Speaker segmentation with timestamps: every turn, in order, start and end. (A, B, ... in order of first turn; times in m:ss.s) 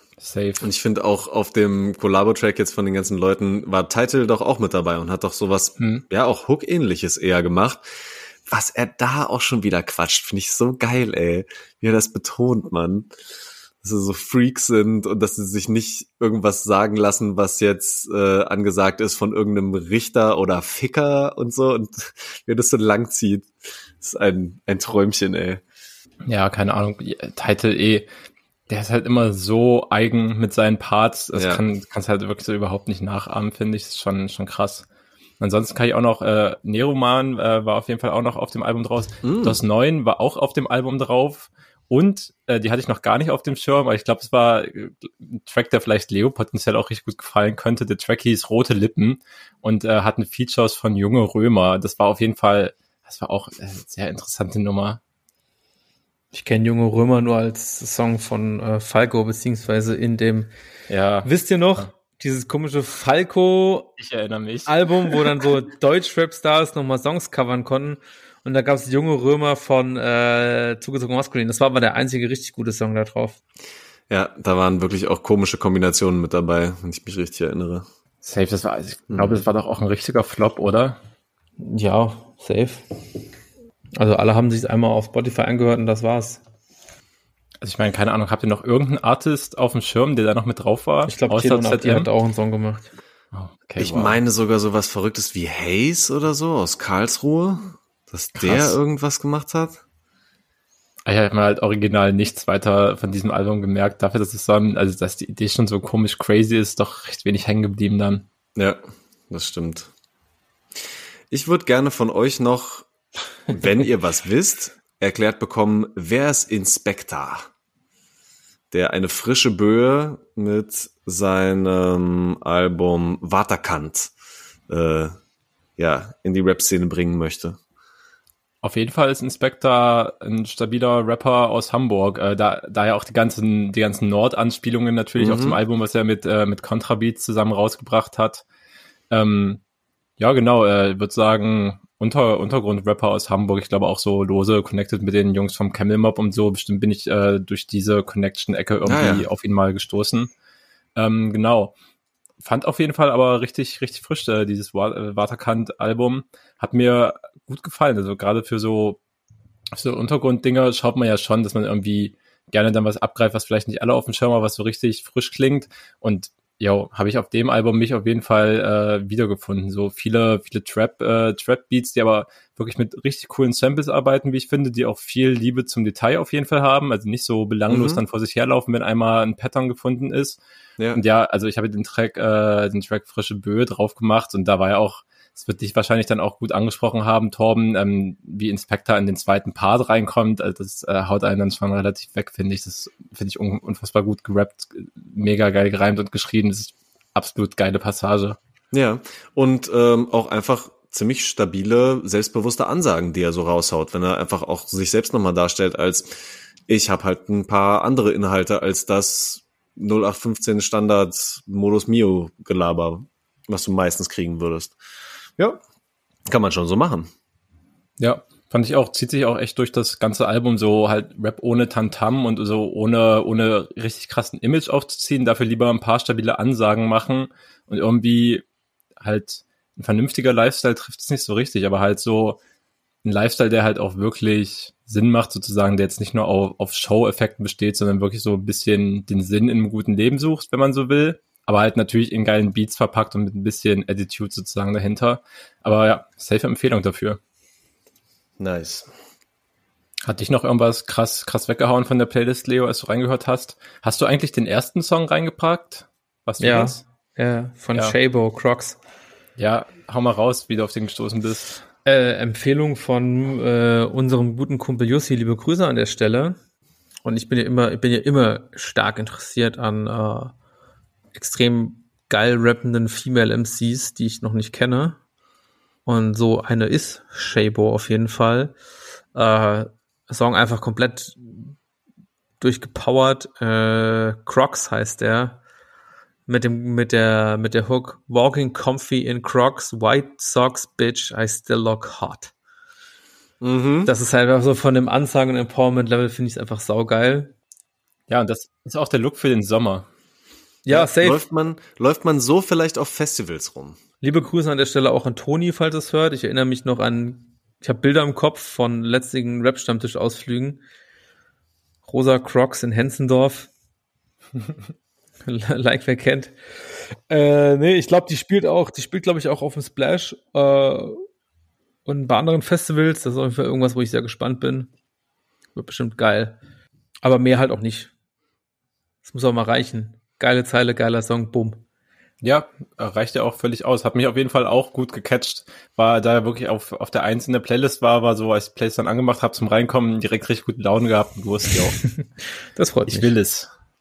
0:00.2-0:00.6 A
0:00.6-0:07.8 B
0:05.8-0:06.0 A
0:08.5-0:13.1 B
0:13.8-0:25.6 B
0:26.3-0:28.1 A
0:28.7-0:34.8 A
0:31.3-0:31.6 B
0:35.4-0:55.0 A
0:39.2-0:39.6 B
0:56.3-1:00.5 C
1:00.9-1:01.9 A
1:01.2-1:03.9 C
1:04.0-1:05.2 A
1:04.7-1:13.4 C
1:14.1-1:17.8 B
1:18.2-1:21.0 A
1:19.1-1:19.4 B
1:21.6-1:22.8 C
1:23.9-1:26.4 C
1:27.6-1:32.1 A
1:31.1-1:32.9 C
1:33.3-1:34.2 A
1:33.8-1:39.8 B
1:38.4-1:38.8 A
1:41.0-1:48.2 A
1:48.6-1:49.9 B
1:51.3-1:52.9 B
1:53.5-1:57.5 B
1:58.7-2:04.1 B
2:04.7-2:05.2 B
2:05.8-2:07.6 B
2:08.6-2:18.4 A
2:15.2-2:15.6 B
2:19.1-2:19.6 A
2:20.2-2:30.3 A
2:28.8-2:29.2 B
2:31.0-2:31.7 A
2:32.4-2:39.0 A
2:39.8-3:00.4 A
2:57.7-2:58.0 B
3:00.9-3:18.4 A
3:18.7-3:34.8 B
3:36.3-3:37.1 B
3:38.0-3:48.4 A
3:49.0-3:52.4 A
3:53.0-4:07.2 A
4:08.4-4:08.9 B
4:10.0-4:16.8 A
4:16.4-4:18.8 C
4:19.4-4:21.6 A
4:21.8-4:26.4 C
4:27.0-4:30.3 C
4:31.1-4:35.0 C
4:35.8-4:38.5 C
4:39.1-4:41.5 C
4:42.4-4:45.4 C
4:46.3-4:52.3 C
4:53.4-4:53.9 B
4:53.8-4:57.3 C
4:58.1-4:59.8 A
5:00.6-5:01.2 C
5:00.7-5:03.8 B
5:04.0-5:10.6 C
5:11.8-5:13.5 C
5:15.2-5:16.3 C
5:17.1-5:21.0 C
5:21.8-5:24.7 C
5:25.5-5:26.4 C
5:27.0-5:27.9 C
5:29.0-5:31.6 C
5:32.2-5:41.8 A
5:42.5-5:43.1 C
5:42.9-5:43.5 A